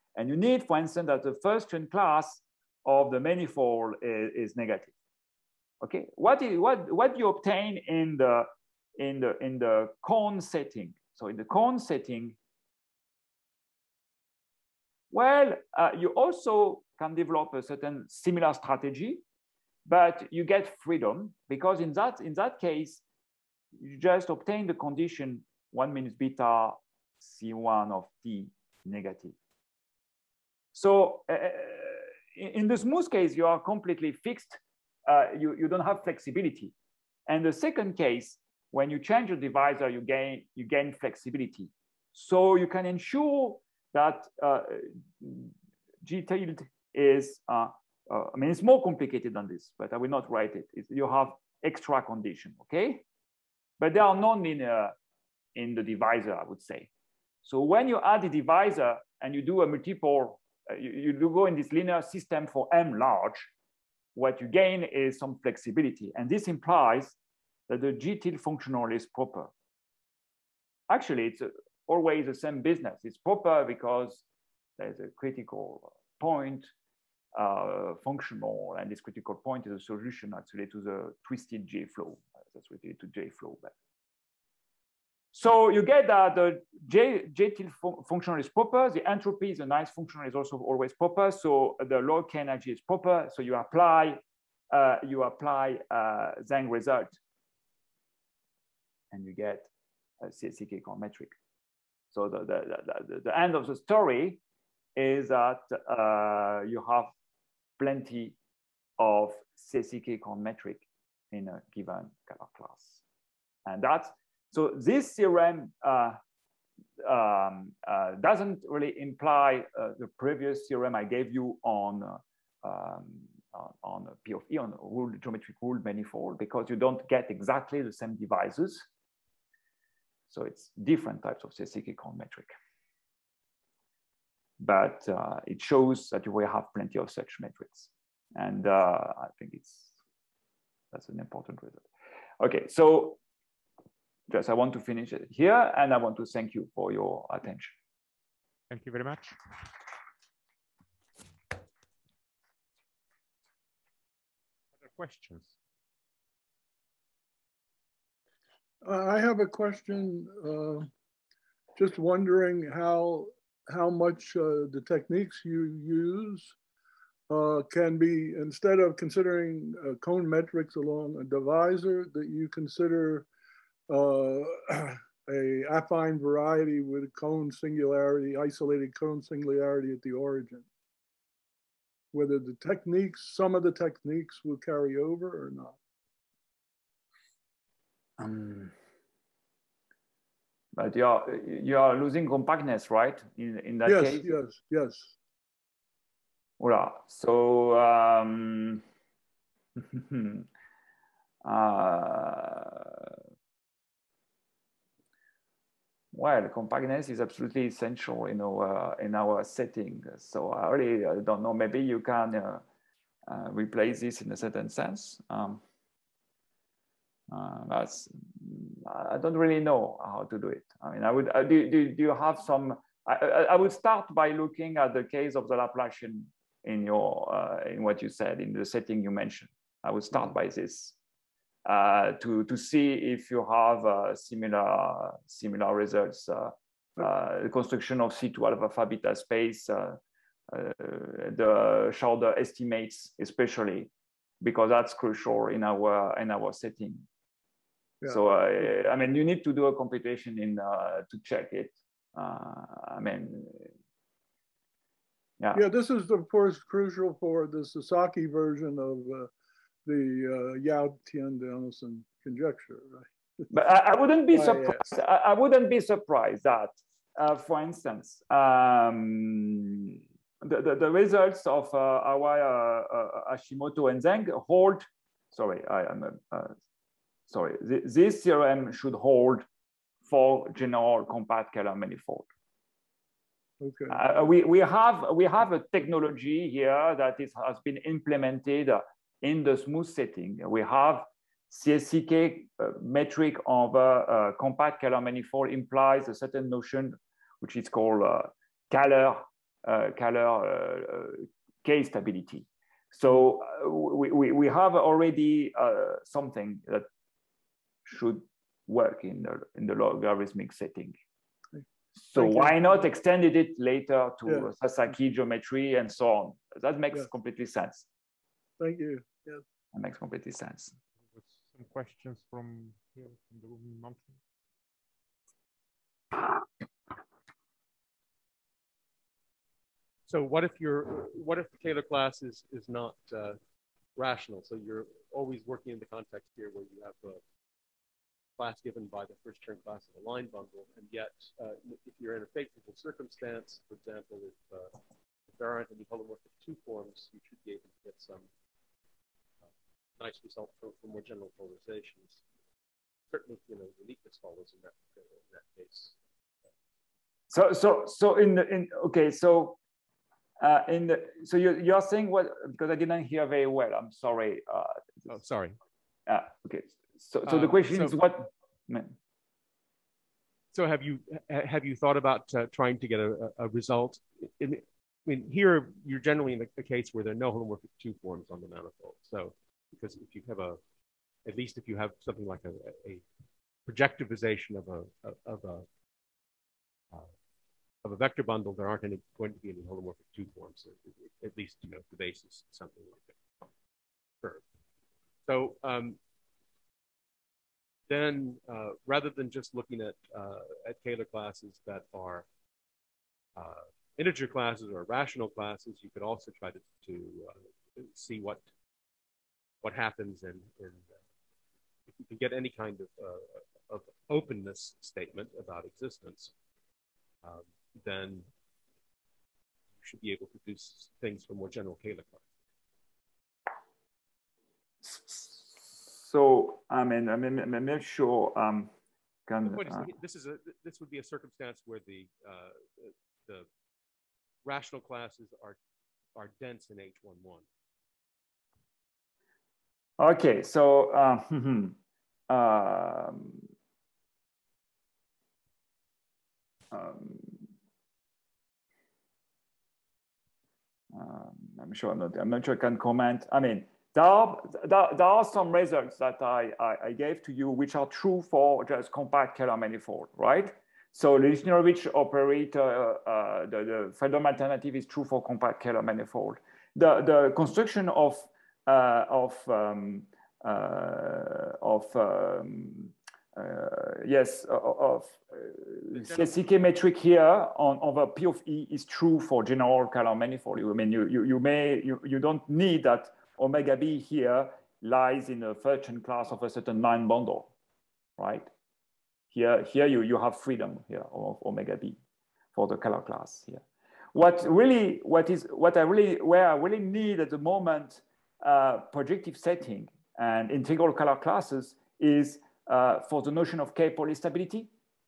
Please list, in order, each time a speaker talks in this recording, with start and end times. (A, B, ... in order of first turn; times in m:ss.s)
0:00.2-0:04.9 A
0:05.8-0:12.4 A
0:15.1-0:19.2 A
0:19.9-0:23.0 A
0:23.8-0:29.4 A
0:30.7-0:36.7 A
0:37.3-0:53.0 A
0:53.8-0:55.0 A
0:55.6-0:56.9 A
0:57.4-1:03.5 A
1:04.2-1:07.2 A
1:07.7-1:09.5 A
1:10.9-1:14.2 A
1:14.8-1:16.7 A
1:17.4-1:23.7 A
1:25.3-1:37.2 A
1:39.1-1:39.7 A
1:40.2-1:41.3 A
1:42.1-1:44.4 A
1:45.0-1:47.1 A
1:47.8-1:48.4 A
1:49.0-1:53.0 A
1:53.7-1:56.2 A
1:57.0-2:08.9 A
2:10.3-2:12.5 A
2:14.6-2:20.0 A
2:20.9-2:21.9 A
2:22.4-2:23.2 A
2:24.3-2:27.7 A
2:28.7-2:29.4 B
2:34.8-2:35.6 B
2:38.8-2:40.9 C
2:41.8-2:46.6 C
2:47.3-2:53.3 C
2:53.9-3:00.7 C
3:02.1-3:05.8 C
3:08.2-3:08.7 A
3:10.8-3:14.4 A
3:13.8-3:15.2 C
3:16.6-3:18.8 A
3:19.8-3:20.5 A
3:21.4-3:23.1 A
3:26.1-3:32.6 A
3:33.3-3:35.6 A
3:37.3-3:51.0 A
3:51.6-4:03.9 A
4:04.4-4:07.0 A
4:08.1-4:13.7 A
4:15.5-4:19.3 C
4:19.9-4:23.1 C
4:23.5-4:36.5 A
4:24.3-4:24.8 C
4:37.3-4:39.5 A
4:40.1-4:42.3 A
4:43.6-4:44.0 C
4:43.9-5:06.9 A
5:07.9-5:10.9 A
5:12.0-5:17.9 A
5:12.2-5:12.5 C
5:18.6-5:19.4 C
5:19.7-5:20.7 A
5:21.1-5:24.2 B
5:30.1-5:33.4 D
5:34.0-5:37.2 D
5:38.4-5:44.8 D
5:45.3-5:48.3 D
5:50.0-5:52.2 D
5:53.1-5:56.0 D
5:57.3-5:59.6 A
6:00.4-6:05.1 A
6:05.1-6:05.6 D
6:06.1-6:09.0 A
6:07.2-6:08.0 D
6:10.5-6:20.6 D
6:21.2-6:23.0 D
6:23.7-6:25.7 D
6:27.8-6:33.2 D
6:35.2-6:36.0 D
6:37.9-6:42.3 D
6:43.4-6:48.5 D
6:49.6-6:51.0 D
6:51.9-6:56.3 D
6:57.2-6:58.3 D
6:59.8-7:02.3 D
7:04.8-7:08.7 A
7:09.3-7:09.9 A
7:09.5-7:13.5 D
7:14.4-7:15.6 D
7:16.1-7:17.5 D
7:20.0-7:21.8 A
7:22.3-7:23.5 A
7:26.7-7:27.5 A
7:30.9-8:07.5 A
8:08.2-8:08.5 A
8:09.3-8:12.0 A
8:12.6-8:13.6 A
8:14.1-8:24.7 A